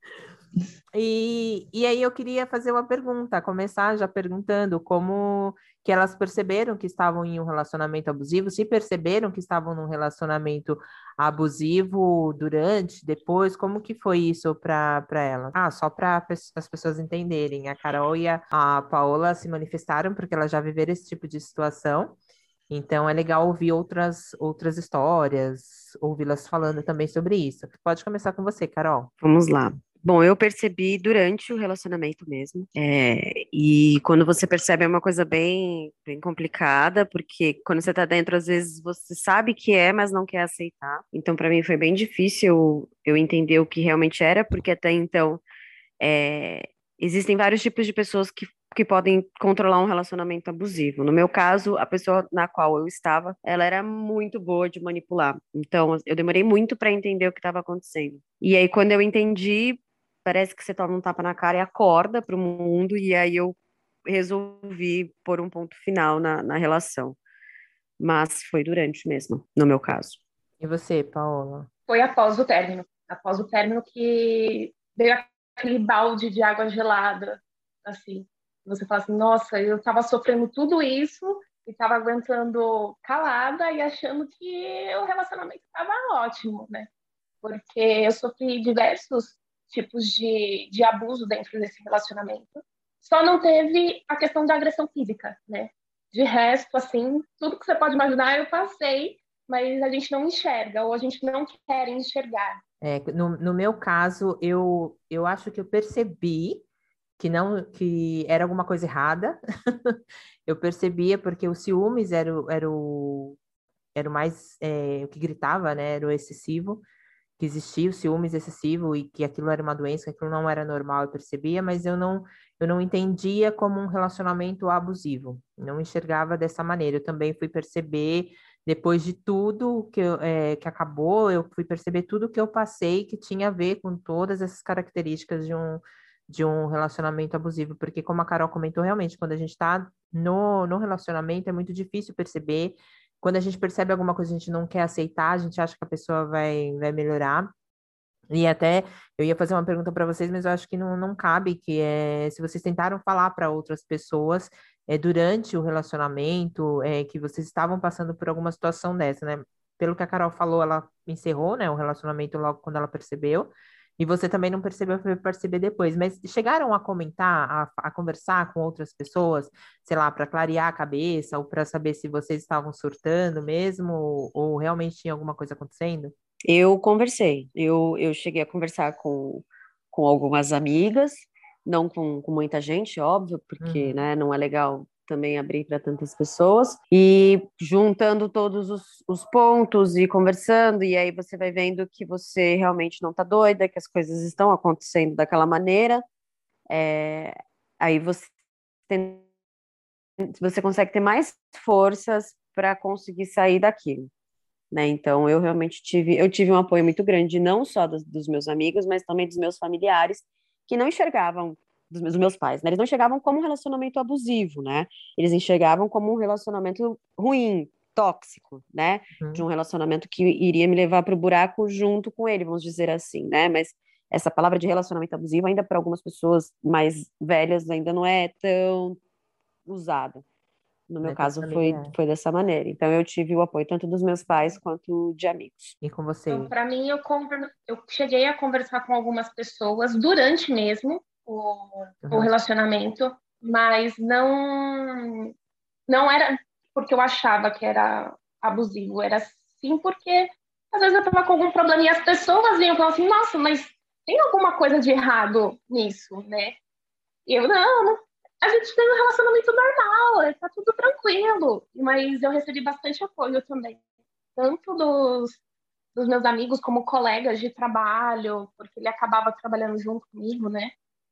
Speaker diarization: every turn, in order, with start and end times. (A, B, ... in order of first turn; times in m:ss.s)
0:00.9-0:22.2 A
0:22.7-0:29.1 A
0:29.2-0:45.4 B
0:46.0-1:03.5 B
1:04.0-1:07.2 B
1:08.0-1:10.2 B
1:10.6-1:11.7 A
1:11.9-1:26.9 C
1:27.4-1:42.6 C
1:42.8-1:46.6 A
1:47.2-1:53.4 A
1:53.9-1:56.8 A
1:57.4-2:27.5 A
2:28.3-2:56.1 A
2:56.4-3:16.0 B
3:03.6-3:04.0 A
3:16.7-3:18.3 B
3:18.9-3:19.2 B
3:20.2-3:24.1 B
3:24.7-3:49.0 B
3:39.2-3:39.4 A
3:49.6-3:50.2 B
3:50.9-3:55.8 B
3:51.0-3:51.9 A
3:55.8-3:56.5 A
3:56.3-4:05.3 C
4:02.0-4:02.3 A
4:05.9-4:16.6 C
4:17.3-4:23.8 C
4:24.4-4:25.4 C
4:25.9-4:30.7 C